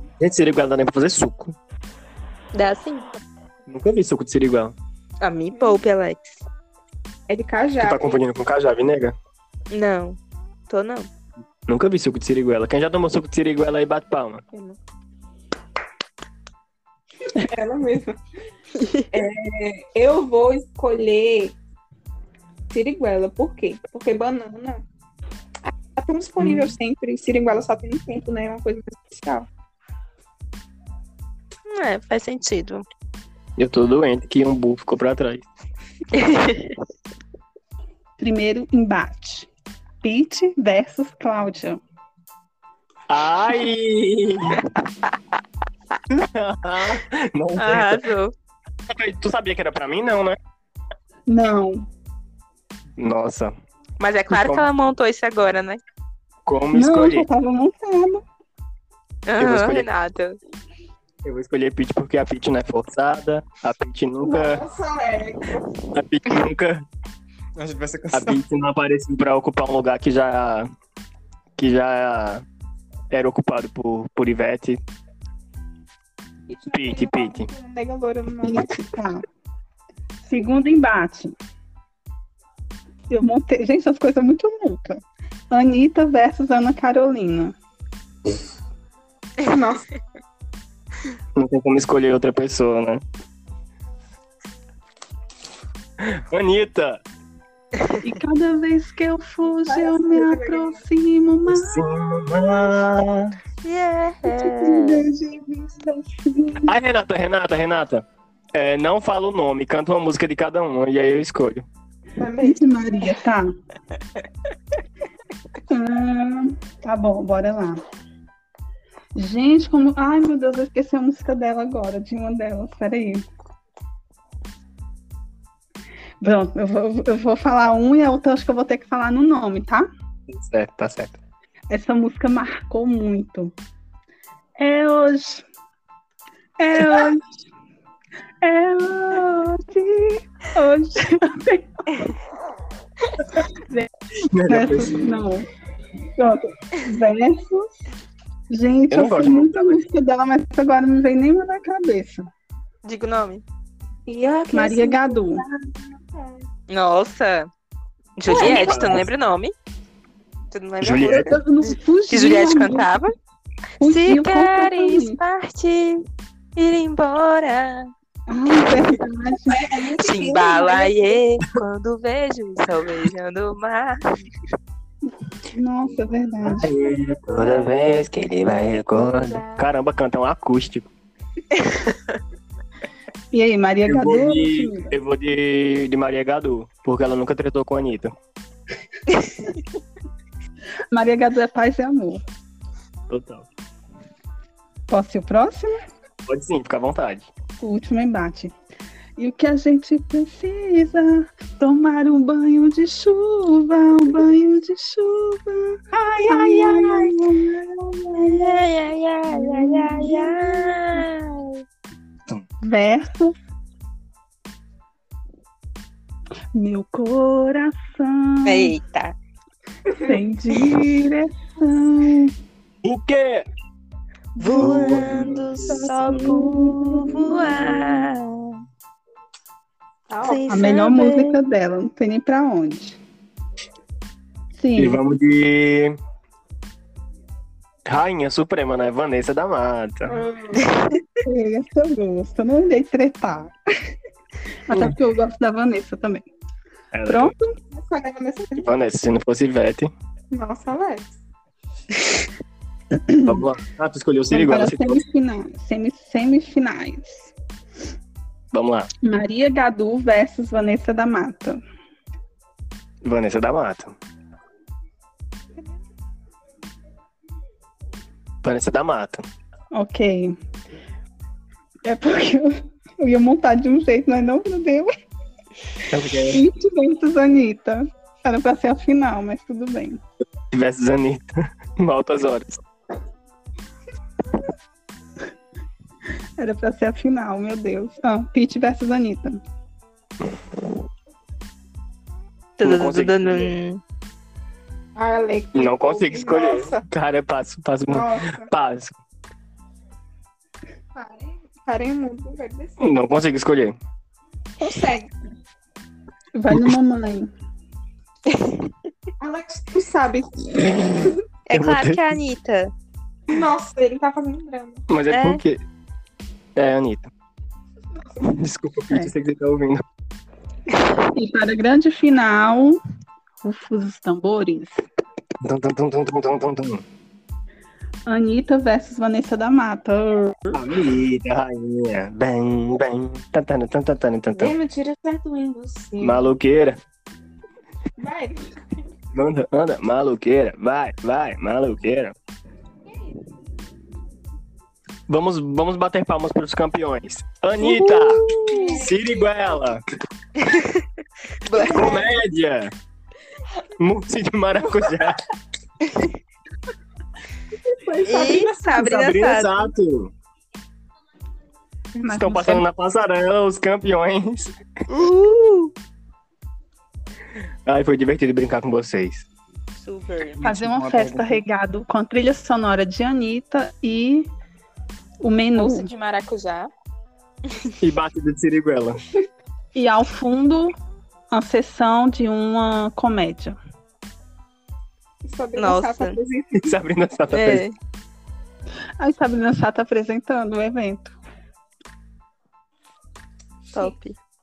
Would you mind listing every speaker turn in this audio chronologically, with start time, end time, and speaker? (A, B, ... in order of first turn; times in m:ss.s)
0:00.2-0:01.6 A
0:02.5-0:03.1 B
0:03.7-0:04.8 A
0:05.2-0:06.4 B
0:05.5-0:05.8 C
0:07.3-0:08.2 C
0:07.8-0:09.2 A
0:09.7-0:10.2 B
0:10.7-0:11.1 B
0:11.7-0:14.4 A
0:14.5-0:14.8 C
0:17.3-0:18.2 C
0:19.1-0:21.6 C
0:22.7-0:24.8 C
0:26.0-0:29.5 C
0:31.7-0:32.8 B
0:33.6-0:35.5 A
0:36.1-0:36.8 B
0:38.2-0:39.5 D
0:40.0-0:41.8 D
0:43.1-0:44.6 A
0:46.2-0:48.1 A
0:47.6-0:48.3 B
0:48.9-0:50.4 A
0:51.3-0:51.9 D
0:53.0-0:53.5 A
0:54.0-0:55.8 B
0:54.3-0:54.7 A
0:56.5-0:57.3 A
0:56.7-0:58.2 D
0:59.3-1:00.4 B
0:59.4-0:59.9 A
1:01.2-1:04.6 A
1:04.2-1:05.6 C
1:05.9-1:06.8 A
1:07.6-1:08.4 E
1:08.1-1:10.7 A
1:11.6-1:12.4 A
1:13.1-1:14.8 A
1:16.5-1:18.8 C
1:16.7-1:17.5 A
1:18.5-1:19.2 D
1:20.2-1:21.3 D
1:23.1-1:27.6 D
1:29.4-1:29.9 C
1:31.4-1:33.0 A
1:36.0-1:37.0 A
1:38.0-1:41.8 D
1:39.7-1:40.8 C
1:41.5-1:43.4 A
1:43.6-1:45.1 B
1:44.2-1:46.7 D
1:46.6-1:51.7 A
1:52.2-1:52.6 C
1:52.4-1:53.5 D
1:55.7-1:57.8 D
1:59.2-2:03.2 D
2:06.2-2:09.9 D
2:10.3-2:11.2 A
2:11.7-2:13.5 D
2:14.6-2:15.4 D
2:16.6-2:17.3 D
2:18.4-2:22.1 D
2:23.4-2:23.9 D
2:24.3-2:25.2 A
2:24.5-2:25.5 D
2:26.2-2:27.7 D
2:28.5-2:32.3 D
2:28.9-2:29.8 A
2:32.8-2:33.4 B
2:34.1-2:36.4 C
2:34.5-2:35.4 D
2:36.7-2:37.5 B
2:38.2-2:39.5 B
2:38.3-2:39.1 A
2:38.3-2:38.8 C
2:40.5-2:43.1 B
2:40.8-2:41.3 A
2:41.1-2:43.0 D
2:43.8-2:45.2 D
2:43.8-2:46.0 B
2:46.6-2:47.9 B
2:48.3-2:49.7 D
2:48.7-2:48.9 B
2:49.5-2:51.2 C
2:50.0-2:54.0 B
2:55.5-2:56.7 D
2:56.4-3:00.9 A
2:59.2-2:59.6 C
3:03.3-3:04.9 D
3:03.9-3:08.1 A
3:10.9-3:12.2 D
3:13.1-3:13.5 A
3:14.9-3:15.8 D
3:16.3-3:17.3 A
3:17.6-3:18.5 D
3:19.2-3:28.6 D
3:26.4-3:27.1 B
3:28.2-3:31.6 B
3:29.3-3:31.0 D
3:32.6-3:33.4 D
3:36.5-3:38.7 D
3:38.5-3:39.2 B
3:39.9-3:40.2 C
3:40.0-3:42.3 D
3:42.8-3:43.5 A
3:44.4-3:48.6 B
3:44.4-3:48.0 D
3:44.6-3:46.4 A
3:50.1-3:50.7 C
3:50.2-3:51.4 B
3:50.5-3:53.0 D
3:54.6-3:55.0 D
3:54.8-3:56.0 A
3:57.9-4:00.2 A
4:00.1-4:00.7 C
4:00.6-4:01.0 B
4:01.2-4:03.5 D
4:04.7-4:06.2 D
4:04.7-4:05.0 A
4:06.9-4:07.3 A
4:07.1-4:07.5 D
4:07.7-4:08.7 C
4:08.6-4:09.9 A
4:10.3-4:11.1 C
4:13.0-4:13.4 D
4:13.2-4:15.0 A
4:14.3-4:17.3 D
4:18.5-4:18.9 A
4:19.0-4:21.6 D
4:23.0-4:24.0 A
4:28.4-4:29.2 A
4:29.7-4:30.4 D
4:31.8-4:34.9 D
4:35.9-4:36.4 A
4:36.3-4:40.0 D
4:40.5-4:42.6 A
4:46.4-4:49.4 D
4:52.6-4:53.8 B
4:52.6-4:53.6 A
4:55.0-4:56.8 C
4:55.6-4:59.0 A
4:57.9-4:58.5 C
5:01.0-5:02.9 C
5:02.8-5:03.8 A
5:04.6-5:05.1 C
5:06.3-5:07.3 D
5:08.3-5:08.7 B
5:09.2-5:11.1 C
5:11.1-5:12.2 A
5:11.5-5:12.7 B
5:13.3-5:14.8 C
5:14.9-5:15.6 A
5:15.1-5:15.4 B
5:16.6-5:17.1 A
5:18.2-5:19.8 A
5:21.1-5:22.8 D
5:23.4-5:24.8 D
5:25.4-5:26.8 A
5:28.1-5:30.6 D
5:30.5-5:34.6 A
5:34.4-5:36.2 C
5:36.0-5:36.8 A
5:38.0-5:38.6 C
5:39.1-5:42.2 A
5:42.9-5:43.2 C
5:45.1-5:49.8 A
5:47.6-5:48.9 B
5:48.5-5:49.3 C
5:50.4-5:50.8 B
5:51.5-5:52.0 B
5:51.5-5:52.2 C
5:51.6-5:52.7 A
5:53.8-5:55.2 A
5:57.7-5:59.0 C
5:58.1-5:59.7 B
5:58.8-6:00.1 A
6:02.0-6:04.6 A
6:02.0-6:02.6 D
6:04.9-6:05.7 B
6:07.7-6:09.3 A
6:09.8-6:10.4 B
6:10.4-6:11.4 E
6:10.4-6:14.3 D
6:15.2-6:15.9 D
6:15.6-6:16.7 B
6:17.8-6:19.0 A
6:19.8-6:20.7 D
6:21.3-6:23.6 D
6:25.2-6:26.8 C
6:25.6-6:26.2 B
6:26.6-6:27.7 A
6:27.3-6:27.8 B
6:29.0-6:31.2 D
6:33.7-6:34.2 B